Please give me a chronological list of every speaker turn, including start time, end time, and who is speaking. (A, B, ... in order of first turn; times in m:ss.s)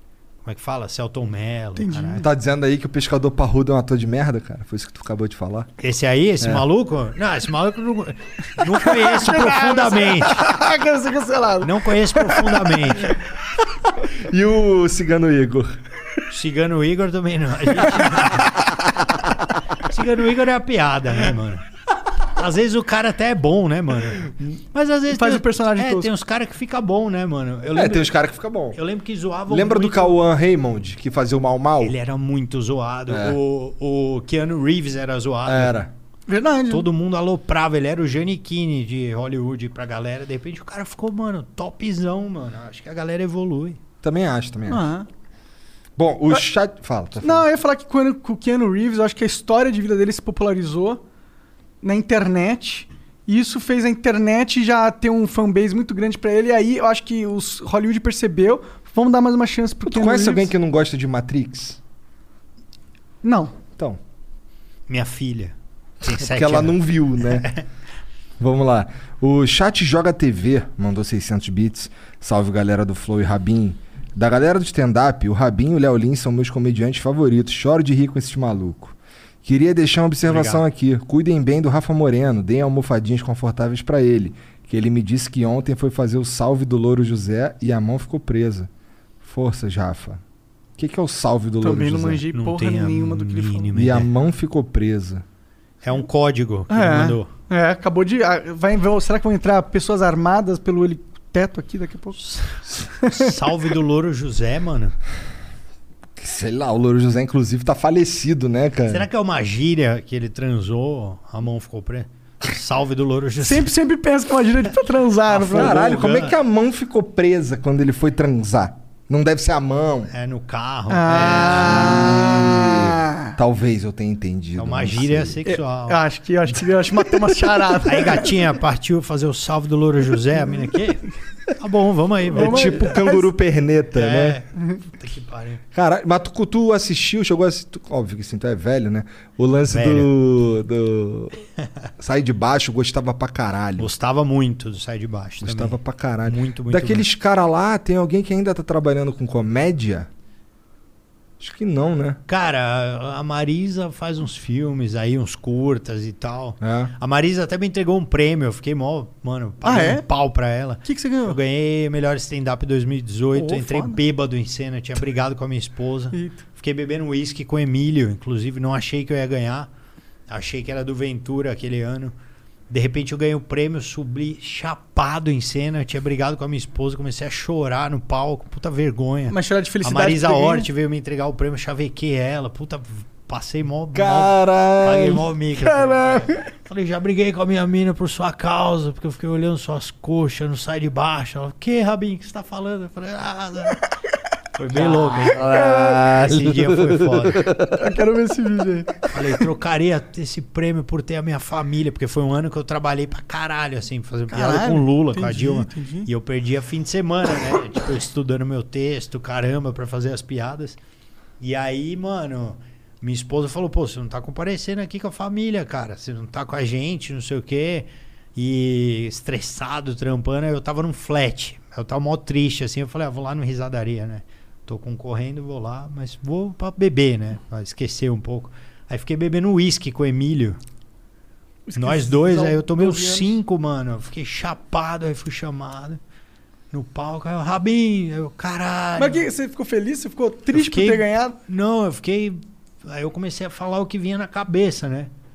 0:00.4-0:02.3 A
0:01.8-0:02.3 B
0:02.2-0:05.7 C
0:05.8-0:10.5 A
0:08.6-0:12.9 B
0:11.6-0:13.2 A
0:14.1-0:15.7 C
0:16.3-0:18.6 A
0:19.8-0:21.6 A
0:22.4-0:28.1 A
0:25.1-0:26.1 B
0:27.7-0:28.8 C
0:28.7-0:30.2 A
0:29.5-0:32.0 C
0:31.8-0:35.8 A
0:33.1-0:33.4 C
0:35.5-0:35.9 C
0:36.3-0:36.9 B
0:36.7-0:43.8 A
0:44.0-0:44.9 C
0:44.7-0:45.1 B
0:46.0-0:47.5 C
0:47.2-0:51.0 B
0:51.8-1:00.5 B
0:59.9-1:01.8 C
1:03.2-1:03.6 B
1:04.9-1:07.6 A
1:06.0-1:07.5 C
1:08.4-1:28.7 C
1:20.2-1:20.6 A
1:29.2-1:30.2 C
1:30.8-1:32.2 C
1:31.6-1:33.7 B
1:32.3-1:34.1 A
1:33.8-1:35.2 C
1:35.8-1:37.3 A
1:36.7-1:42.2 B
1:42.2-1:42.5 A
1:43.0-1:43.3 B
1:43.0-1:45.0 A
1:46.2-1:49.1 C
1:48.9-1:53.7 A
1:53.4-1:55.8 B
1:55.3-1:56.3 A
1:55.5-2:00.1 C
2:00.1-2:02.2 A
2:00.9-2:03.4 B
2:01.2-2:05.4 C
2:04.6-2:06.0 A
2:05.5-2:08.4 B
2:07.8-2:12.9 A
2:12.3-2:13.3 B
2:12.3-2:14.4 C
2:14.0-2:15.6 A
2:15.7-2:21.4 C
2:19.7-2:20.1 A
2:22.0-2:23.9 C
2:23.8-2:27.1 A
2:25.4-2:30.1 C
2:31.4-2:32.2 C
2:32.3-2:49.7 A
2:36.6-2:36.9 C
2:39.6-2:40.0 B
2:40.8-2:41.4 B
2:43.4-2:44.0 B
2:46.1-2:46.4 B
2:50.3-2:52.1 A
2:52.7-3:13.8 A
2:59.3-3:00.7 B
3:04.0-3:05.2 C
3:05.6-3:06.4 B
3:14.6-3:17.5 A
3:15.2-3:17.8 C
3:15.5-3:15.8 B
3:17.7-3:19.1 B
3:19.1-3:30.8 A
3:24.3-3:26.1 B
3:31.4-3:50.6 A
3:51.7-3:53.4 B
3:51.8-3:56.0 A
3:56.7-3:59.3 A
3:59.0-4:01.4 B
4:00.5-4:05.1 A